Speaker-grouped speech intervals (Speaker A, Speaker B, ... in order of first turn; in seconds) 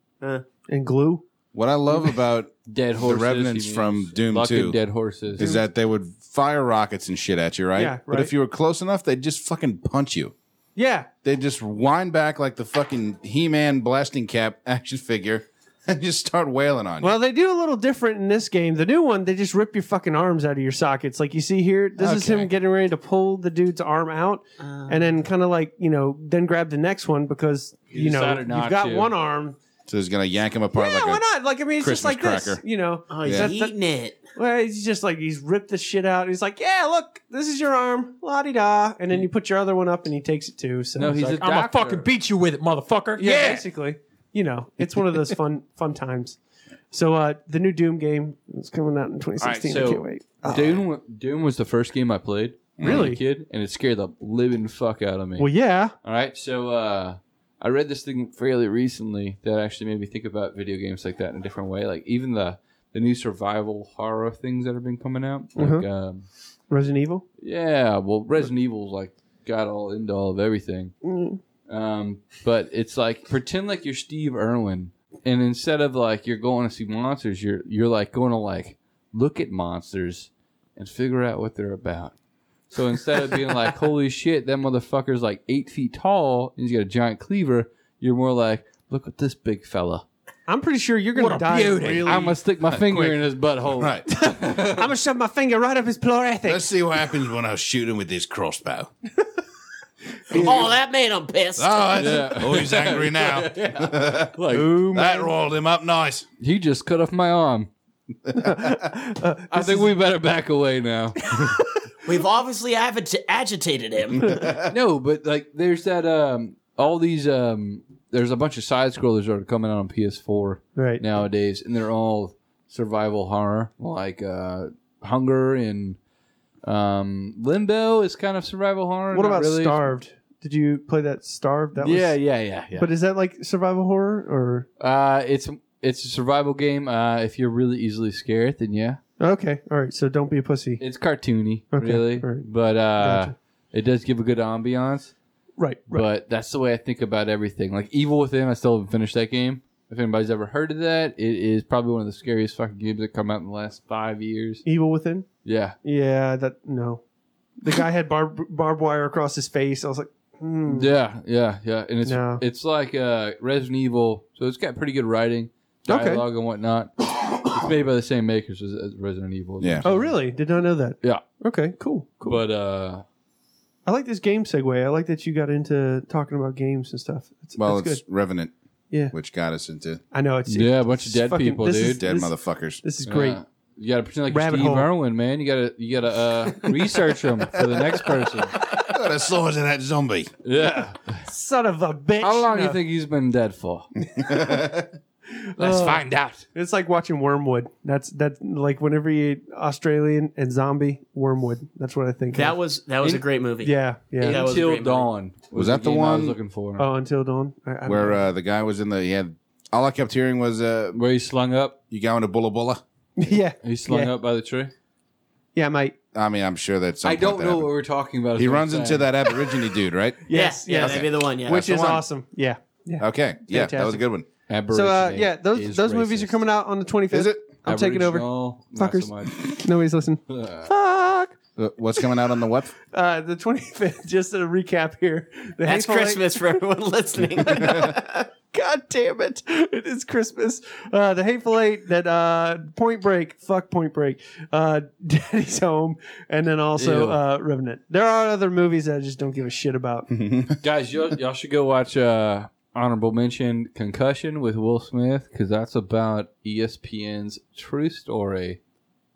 Speaker A: 0.2-0.5, 24.6-25.1, 33.1-34.3, 100.3-101.9, 112.0-114.6, 202.3-205.1, 220.3-221.7, 235.6-238.3
Speaker B: 0.7-1.2, 7.8-8.3, 10.8-11.1, 17.0-29.6, 30.7-33.7, 34.3-41.2, 43.2-46.4, 46.9-50.8, 52.8-53.2, 55.4-55.9, 65.5-65.8, 66.7-67.2, 71.0-71.4, 90.5-92.4, 94.5-96.7, 100.3-100.6, 104.5-105.3, 108.3-109.9, 111.3-111.6, 120.7-121.0, 129.1-132.2, 132.7-134.7, 139.2-140.8, 141.7-142.5, 143.0-143.3, 145.6-146.1, 154.6-155.3, 155.8-157.0, 157.6-160.9, 162.0-162.4, 165.9-166.2, 169.8-172.4, 173.8-178.0, 180.1-183.4, 184.3-184.9, 191.2-192.8, 195.6-202.6, 203.6-204.5, 206.8-208.2, 213.2-214.1, 215.5-215.9, 220.3-224.0, 224.7-231.3, 232.9-236.4, 237.4-250.1
Speaker C: 1.5-4.8, 5.3-10.3, 11.2-17.2, 22.0-22.5, 29.9-31.2, 31.8-32.6, 33.2-33.5, 52.8-53.1, 92.7-94.2, 96.4-98.9, 100.3-100.7, 101.5-106.3, 108.2-108.7, 169.6-169.8, 177.6-178.5, 179.1-180.0, 181.8-182.8, 188.6-190.3, 194.1-194.9, 195.6-196.4, 205.5-206.4, 207.8-211.0, 211.9-212.8, 216.1-217.7, 218.3-222.0, 223.0-224.3, 227.1-227.4, 231.6-232.7, 250.1-250.6
Speaker D: 2.7-5.5, 27.9-29.1, 41.0-42.1, 49.4-55.5, 56.0-66.3, 67.4-70.9, 71.7-82.1, 82.7-90.0, 92.0-94.9, 102.0-104.8, 106.4-107.7, 109.5-111.3, 114.7-126.0, 126.6-129.9, 131.8-132.9, 134.8-139.0, 140.8-145.1, 145.9-154.6, 155.4-155.8, 160.7-170.2, 172.2-173.0, 180.5-182.0, 183.0-188.6, 190.4-191.2, 192.2-193.9, 195.6-196.4, 204.2-206.9, 210.9-211.8, 213.6-214.7, 217.0-219.1, 224.5-226.4, 227.6-229.6, 230.3-230.7, 246.7-247.2, 250.6-258.6
Speaker E: 41.1-43.6, 91.1-92.3